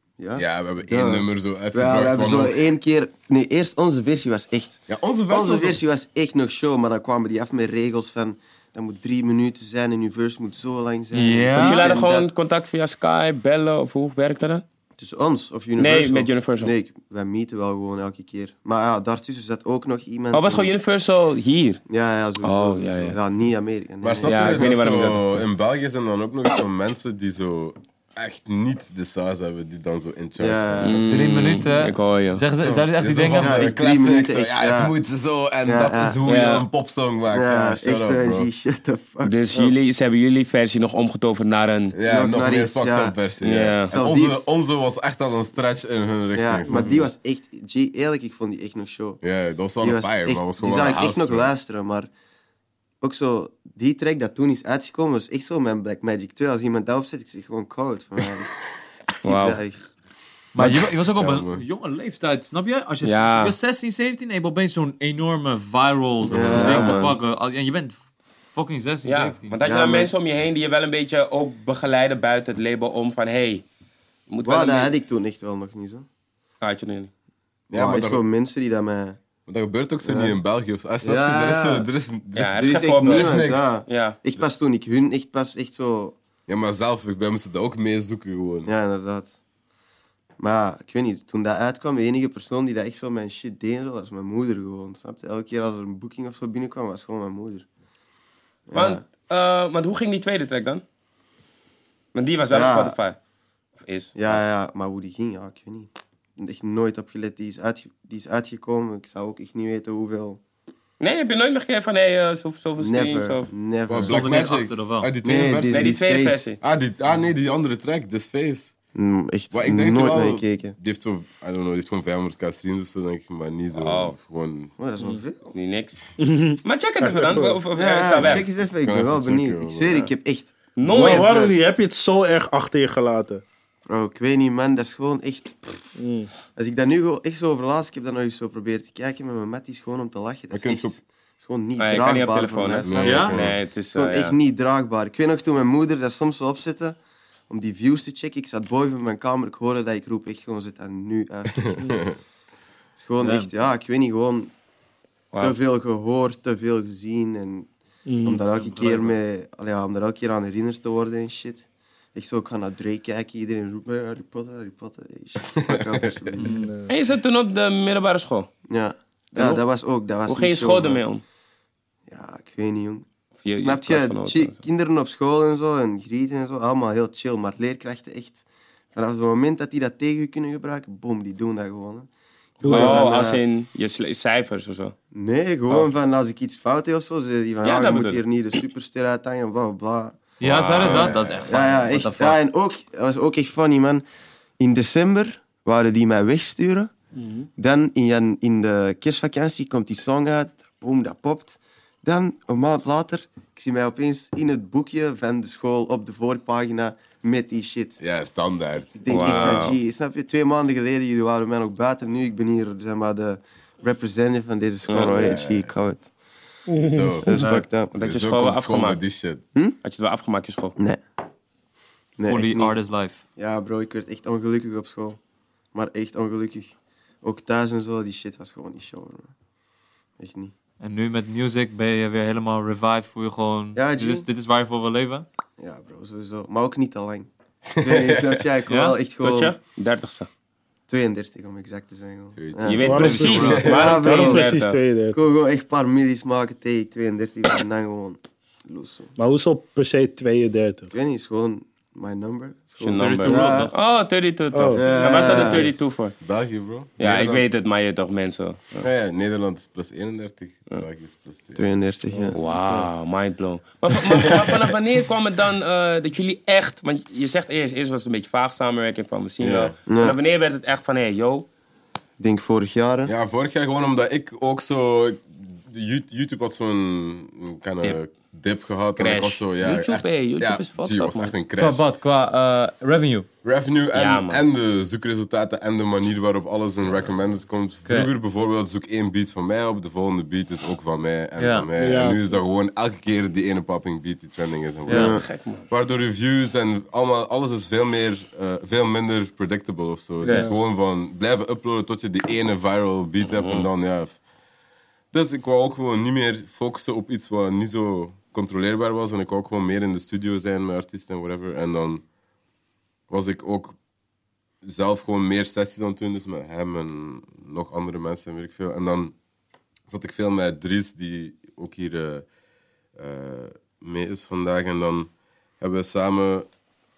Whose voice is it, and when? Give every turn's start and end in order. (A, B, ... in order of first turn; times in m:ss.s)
0:00.2-0:12.3 A
0:00.4-0:02.6 B
0:04.9-0:05.8 B
0:11.1-0:11.9 C
0:11.6-0:14.6 D
0:15.0-0:20.7 A
0:15.8-0:16.7 D
0:20.3-0:21.8 D
0:21.9-0:24.7 A
0:22.4-0:23.2 D
0:24.0-0:31.0 B
0:24.2-0:25.4 D
0:30.4-0:31.0 A
0:30.8-0:32.4 D
0:31.0-0:33.6 C
0:32.6-0:38.5 B
0:33.4-0:34.9 A
0:35.6-0:36.2 A
0:36.2-0:36.7 D
0:37.3-0:39.7 A
0:39.2-0:42.0 D
0:41.9-0:47.1 B
0:42.1-0:43.2 A
0:43.4-0:43.9 D
0:43.9-0:44.4 A
0:46.3-0:49.2 A
0:49.2-0:51.5 B
0:49.8-0:52.1 A
0:53.0-0:58.6 A
0:59.1-0:59.8 A
0:59.2-0:59.6 D
1:00.5-1:08.0 C
1:00.6-1:01.6 B
1:03.0-1:03.6 D
1:06.3-1:06.7 B
1:06.3-1:07.1 A
1:06.5-1:07.2 D
1:08.5-1:09.6 C
1:09.0-1:13.6 D
1:09.6-1:10.1 A
1:14.3-1:14.9 D
1:14.4-1:16.1 A
1:16.6-1:17.1 D
1:17.7-1:18.2 B
1:17.7-1:19.2 A
1:19.5-1:23.8 B
1:20.0-1:20.4 A
1:21.0-1:21.9 A
1:22.4-1:24.2 D
1:22.6-1:26.2 A
1:26.5-1:28.7 B
1:28.6-1:29.4 A
1:30.4-1:37.7 A
1:38.7-1:39.0 A
1:38.7-1:40.8 D
1:42.1-1:43.2 D
1:42.5-1:43.0 A
1:43.8-1:44.4 D
1:44.2-1:50.4 A
1:51.0-1:53.5 D
1:52.8-1:54.2 A
1:53.9-1:56.0 B
1:54.0-1:55.1 C
1:55.2-1:56.5 A
1:55.7-1:56.6 D
1:56.6-1:58.7 B
1:59.0-2:00.8 A
1:59.5-2:04.7 B
2:03.7-2:04.2 D
2:04.8-2:05.6 A
2:05.5-2:06.0 D
2:06.2-2:07.7 E
2:06.6-2:08.5 D
2:07.7-2:11.6 A
2:08.2-2:10.1 B
2:10.8-2:11.6 D
2:10.8-2:13.4 E
2:13.9-2:16.0 A
2:16.0-2:16.3 E
2:16.5-2:23.4 A
2:20.5-2:21.0 B
2:21.8-2:24.4 D
2:22.8-2:23.6 B
2:23.0-2:23.3 C
2:23.9-2:27.0 A
2:27.5-2:32.1 A
2:31.6-2:32.1 B
2:33.0-2:34.5 A
2:33.2-2:33.5 C
2:35.3-2:35.6 D
2:35.4-2:37.7 A
2:38.1-2:38.4 E
2:38.2-2:46.7 A
2:38.5-2:39.2 C
2:45.5-2:46.1 B
2:46.4-2:46.7 C
2:46.4-2:46.9 E
2:46.9-2:48.5 D
2:48.7-2:51.0 A
2:49.4-2:49.6 D
2:50.3-2:51.2 D
2:52.1-2:58.4 A
2:53.4-2:54.6 D
2:58.9-3:03.4 A
3:02.6-3:03.1 E
3:02.7-3:05.0 D
3:05.1-3:10.2 A
3:07.6-3:08.2 D
3:10.4-3:12.4 C
3:10.4-3:11.5 B
3:10.8-3:14.0 A
3:14.6-3:16.9 A
3:17.2-3:17.5 E
3:17.6-3:28.0 A
3:28.0-3:29.7 B
3:29.0-3:36.1 A
3:29.1-3:29.8 D
3:34.9-3:35.4 D
3:35.0-3:35.7 B
3:36.7-3:37.3 E
3:36.8-3:39.4 B
3:37.2-3:37.9 A
3:37.9-3:39.0 D
3:39.8-3:40.8 D
3:42.2-3:42.8 A
3:42.3-3:43.2 C
3:43.4-3:45.2 A
3:45.7-3:49.3 A
3:50.2-3:50.5 A
3:50.8-3:55.3 C
3:53.8-3:54.3 A
3:55.6-3:59.6 A
3:57.7-3:58.4 B
3:58.7-3:59.0 C
3:59.2-4:00.3 D
4:00.9-4:04.5 A
4:02.4-4:03.8 B
4:02.6-4:04.8 D
4:02.8-4:05.2 E
4:02.9-4:03.7 C
4:05.1-4:09.1 A
4:09.2-4:10.9 E
4:10.9-4:13.7 A
4:12.8-4:16.2 D
4:13.0-4:13.7 C
4:14.5-4:15.3 E
4:14.8-4:15.7 A
4:16.2-4:17.5 B
4:17.0-4:18.9 D
4:18.8-4:21.7 B
4:21.6-4:22.4 A
4:22.1-4:22.9 E
4:22.3-4:31.5 D
4:29.4-4:29.8 B
4:29.9-4:30.2 A
4:32.2-4:33.1 A
4:33.0-4:41.8 B
4:39.0-4:41.3 D
4:41.6-4:43.3 C
4:43.4-5:04.2 B
4:43.9-4:44.4 D
4:51.4-4:51.7 C
4:51.8-4:52.3 E
4:54.9-4:55.1 C
4:54.9-4:55.7 D
4:54.9-4:55.2 A
5:00.2-5:00.5 C
5:00.3-5:00.5 E
5:03.2-5:03.7 D
5:05.1-5:12.0 B
5:13.1-5:13.8 B
5:14.6-5:19.2 B
5:19.9-5:22.3 B
5:23.0-5:26.5 B